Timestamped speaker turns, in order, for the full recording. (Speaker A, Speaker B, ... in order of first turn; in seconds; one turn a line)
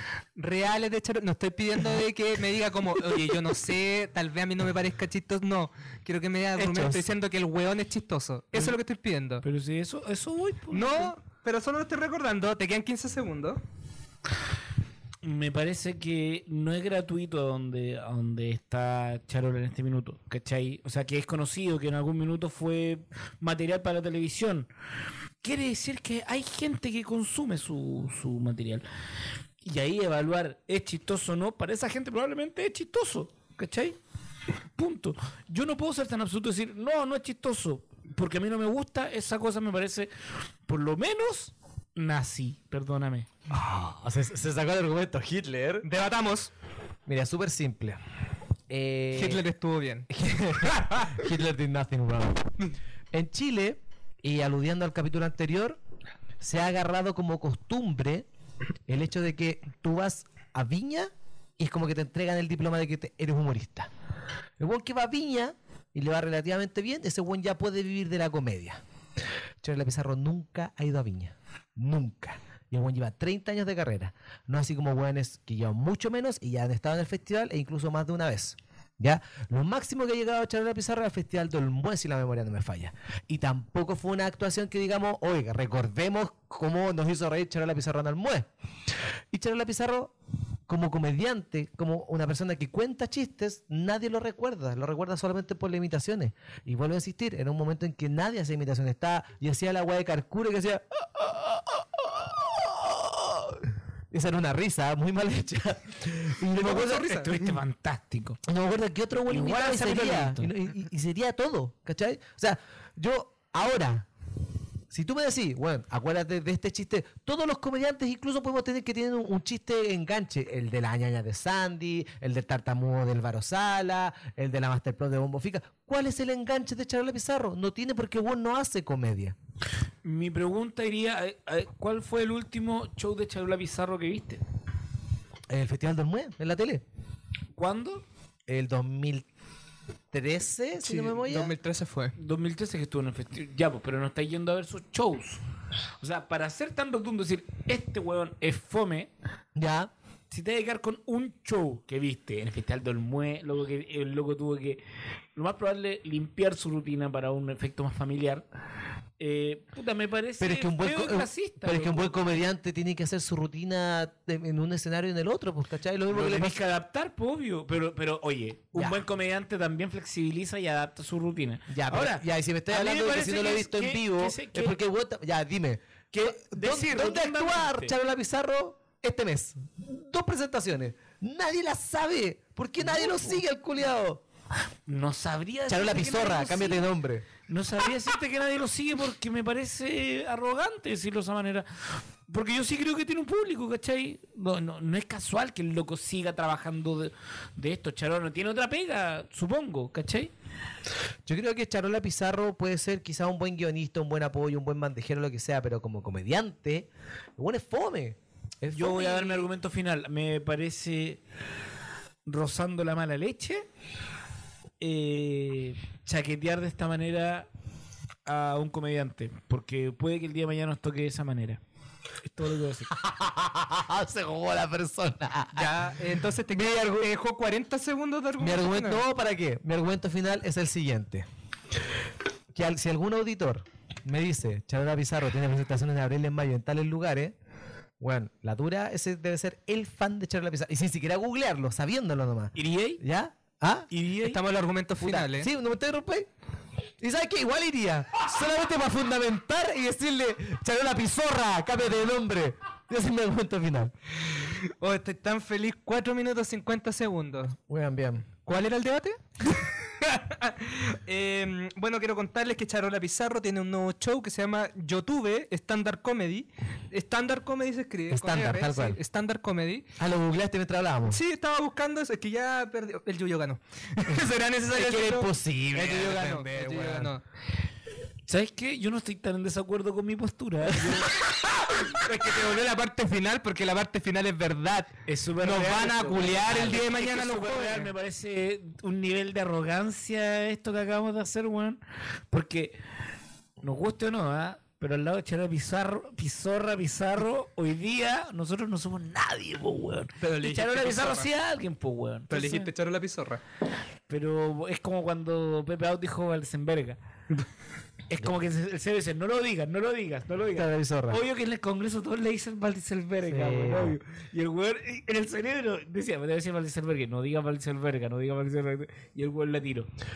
Speaker A: 0.3-9.4
Speaker B: 6.5-7.0
Speaker C: 9.4-11.1
Speaker A: 10.7-13.6
Speaker C: 15.2-24.7
Speaker C: 25.4-28.8
Speaker C: 29.6-34.0
Speaker C: 34.8-40.1
Speaker C: 40.7-43.3
Speaker B: 43.5-45.9
Speaker A: 45.8-46.5
Speaker B: 47.0-48.0
Speaker B: 48.7-49.4
Speaker A: 49.1-50.1
Speaker B: 50.1-52.5
Speaker B: 53.1-55.8
Speaker B: 56.4-58.2
Speaker B: 58.9-63.9
Speaker B: 64.6-68.8
Speaker B: 69.6-88.5
Speaker B: 89.3-90.1
Speaker B: 90.7-107.2
Speaker A: 106.5-107.3
Speaker C: 106.9-108.4
Speaker B: 108.5-114.1
Speaker C: 109.3-110.5
Speaker B: 114.9-129.3
Speaker C: 130.0-134.4
Speaker B: 135.5-136.8
Speaker C: 137.6-138.0
Speaker B: 138.5-139.2
Speaker B: 140.1-141.5
Speaker A: 140.8-142.1
Speaker C: 142.2-145.4
Speaker C: 146.0-149.1
Speaker B: 149.6-149.9
Speaker C: 150.3-154.8
Speaker C: 155.3-158.4
Speaker C: 159.2-162.2
Speaker B: 160.4-166.6
Speaker C: 166.1-174.8
Speaker B: 168.7-169.0
Speaker B: 171.7-184.2
Speaker C: 176.1-177.9
Speaker C: 182.8-183.4
Speaker C: 184.9-186.8
Speaker B: 185.7-187.3
Speaker C: 187.5-200.3
Speaker B: 201.2-209.5
Speaker C: 208.7-211.2
Speaker C: 212.2-213.6
Speaker C: 214.8-217.5
Speaker C: 218.2-221.6
Speaker C: 222.2-222.9
Speaker B: 222.9-225.8
Speaker A: 225.5-229.0
Speaker B: 226.5-227.1
Speaker B: 228.4-231.2
Speaker B: 232.5-237.3
Speaker B: 238.0-243.9
Speaker C: 242.6-243.0
Speaker C: 243.9-244.4
Speaker A: 244.2-245.5
Speaker B: 245.0-246.3
Speaker B: 247.0-253.9
Speaker A: 254.3-257.6
Speaker B: 257.7-258.3
Speaker A: 258.4-269.9
Speaker B: 268.1-269.0
Speaker B: 270.0-271.2
Speaker A: 271.1-277.2
Speaker B: 274.0-277.1
Speaker C: 275.8-277.0
Speaker C: 278.3-281.2
Speaker A: 281.6-287.9
Speaker C: 285.1-291.8
Speaker C: 292.3-292.8
Speaker C: 293.6-302.7
Speaker A: 300.2-301.3
Speaker A: 302.3-303.4
Speaker C: 304.1-307.0
Speaker C: 308.1-319.9
Speaker B: 310.5-311.2
Speaker B: 313.2-314.0